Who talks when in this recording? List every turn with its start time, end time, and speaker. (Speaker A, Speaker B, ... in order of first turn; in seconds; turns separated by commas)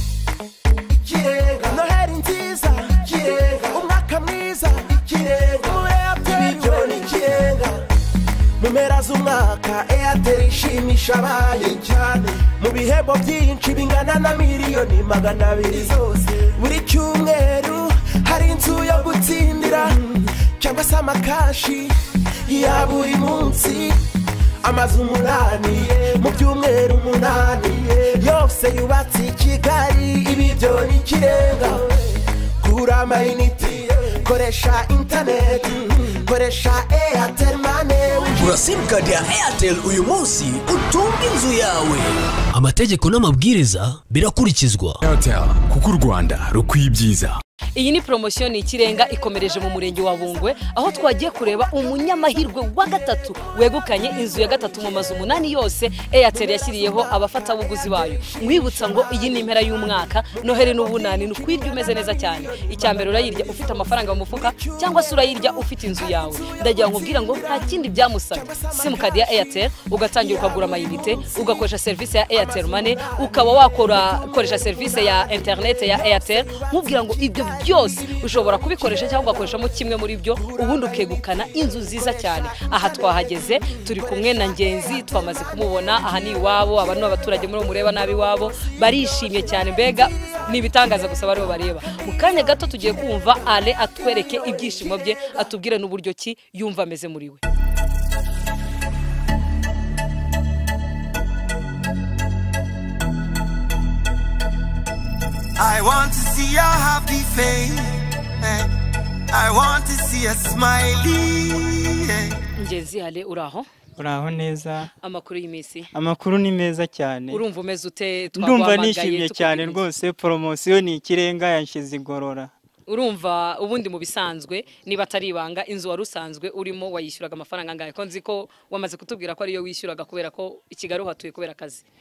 Speaker A: 1.0-7.8, Speaker A: 8.6-24.0, Speaker A: 24.6-38.5, Speaker B: 38.3-45.0, Speaker C: 45.0-47.4, Speaker D: 47.8-97.4, Speaker A: 58.6-59.7, Speaker A: 63.3-64.5, Speaker A: 66.5-67.7, Speaker A: 68.3-69.5, Speaker E: 105.6-108.7, Speaker A: 105.7-107.6, Speaker A: 109.3-111.1, Speaker E: 109.3-112.4, Speaker D: 112.6-113.7, Speaker F: 114.0-114.9, Speaker D: 115.0-115.9, Speaker F: 115.9-117.4, Speaker D: 117.3-119.8, Speaker F: 118.3-122.5, Speaker D: 122.9-131.8